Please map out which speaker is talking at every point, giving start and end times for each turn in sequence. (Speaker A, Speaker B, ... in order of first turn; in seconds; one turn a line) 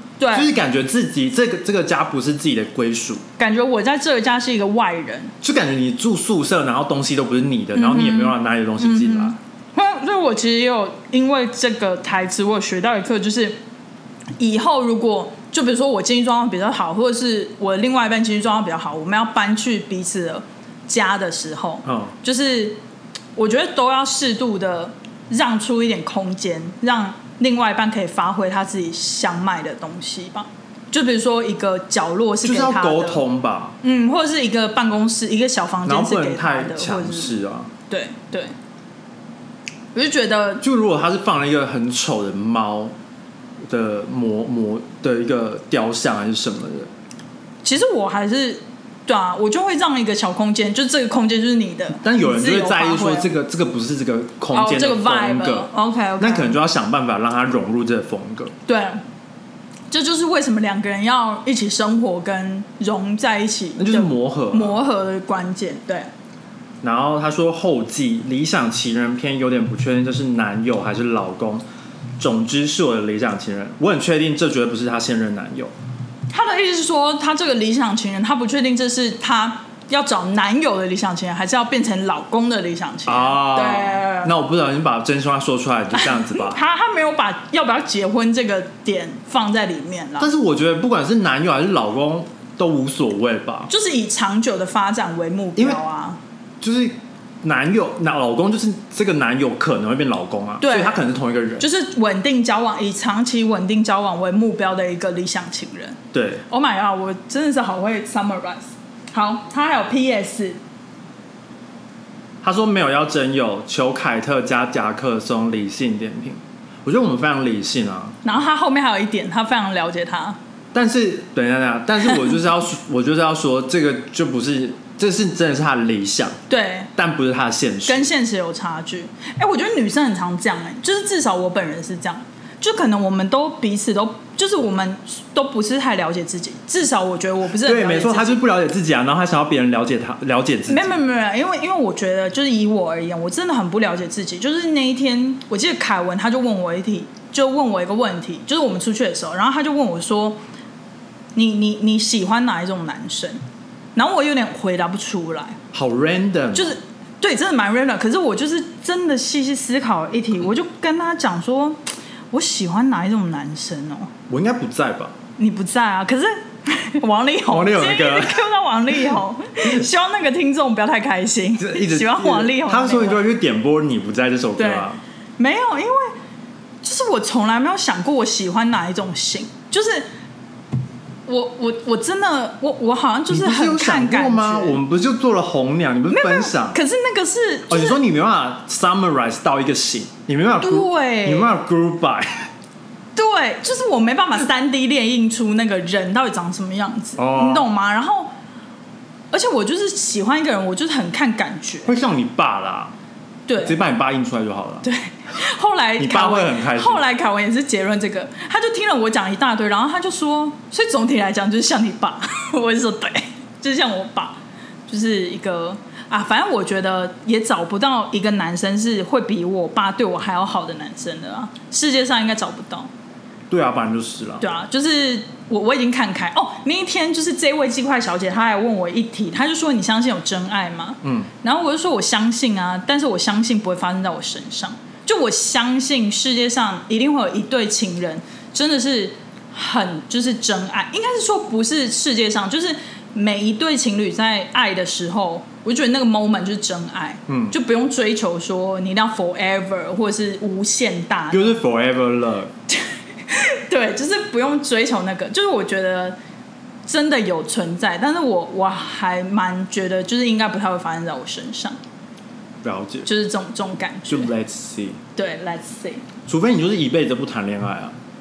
Speaker A: 0.2-0.5
Speaker B: 0.3-3.2
Speaker A: 3.4-5.3
Speaker B: 5.4-9.3
Speaker A: 7.7-13.6
Speaker A: 14.4-22.8
Speaker B: 21.8-22.1
Speaker A: 23.4-33.2
Speaker B: 32.4-33.8
Speaker A: 33.8-37.3
Speaker B: 35.9-37.7
Speaker A: 37.9-38.5
Speaker A: 39.9-40.6
Speaker B: 40.6-42.9
Speaker B: 43.6-46.9
Speaker A: 47.6-53.3
Speaker B: 52.0-58.5
Speaker A: 54.5-56.6
Speaker A: 58.6-59.0
Speaker A: 59.9-66.1
Speaker B: 63.8-64.8
Speaker B: 66.8-71.6
Speaker B: 72.2-75.7
Speaker A: 76.3-84.3
Speaker B: 83.0-86.6
Speaker A: 85.9-90.3
Speaker B: 90.2-93.7
Speaker A: 93.7-96.2
Speaker B: 96.6-101.6
Speaker A: 100.6-101.0
Speaker A: 101.6-110.6
Speaker B: 106.1-106.4
Speaker B: 112.4-118.2
Speaker A: 118.2-120.4
Speaker B: 120.7-126.4
Speaker A: 126.5-126.9
Speaker B: 126.9-128.1
Speaker A: 127.8-138.4
Speaker B: 137.6-140.9
Speaker A: 140.7-150.4
Speaker A: 151.3-153.4
Speaker A: 153.9-155.6
Speaker B: 155.7-156.8
Speaker A: 156.5-161.8
Speaker A: 162.3-164.1
Speaker B: 164.3-165.1
Speaker A: 165.4-173.2
Speaker B: 167.5-168.5
Speaker B: 171.6-175.0
Speaker A: 174.6-174.8
Speaker A: 175.4-176.1
Speaker A: 176.8-180.1
Speaker A: 181.3-184.8
Speaker B: 183.3-186.8
Speaker A: 186.1-188.0
Speaker B: 187.7-192.5
Speaker A: 190.6-191.5
Speaker A: 193.2-198.3
Speaker B: 197.2-197.7
Speaker A: 199.3-201.9
Speaker B: 201.8-202.9
Speaker A: 203.5-203.8
Speaker B: 203.6-204.8
Speaker A: 204.8-222.9
Speaker B: 206.0-207.0
Speaker B: 223.5-224.5
Speaker A: 224.4-251.6
Speaker B: 231.0-231.3
Speaker B: 247.3-247.5
Speaker B: 251.3-252.5
Speaker A: 252.8-256.1
Speaker A: 256.9-261.8
Speaker B: 262.6-263.1
Speaker A: 263.1-264.3
Speaker B: 264.1-265.0
Speaker A: 265.1-266.0
Speaker B: 266.3-267.9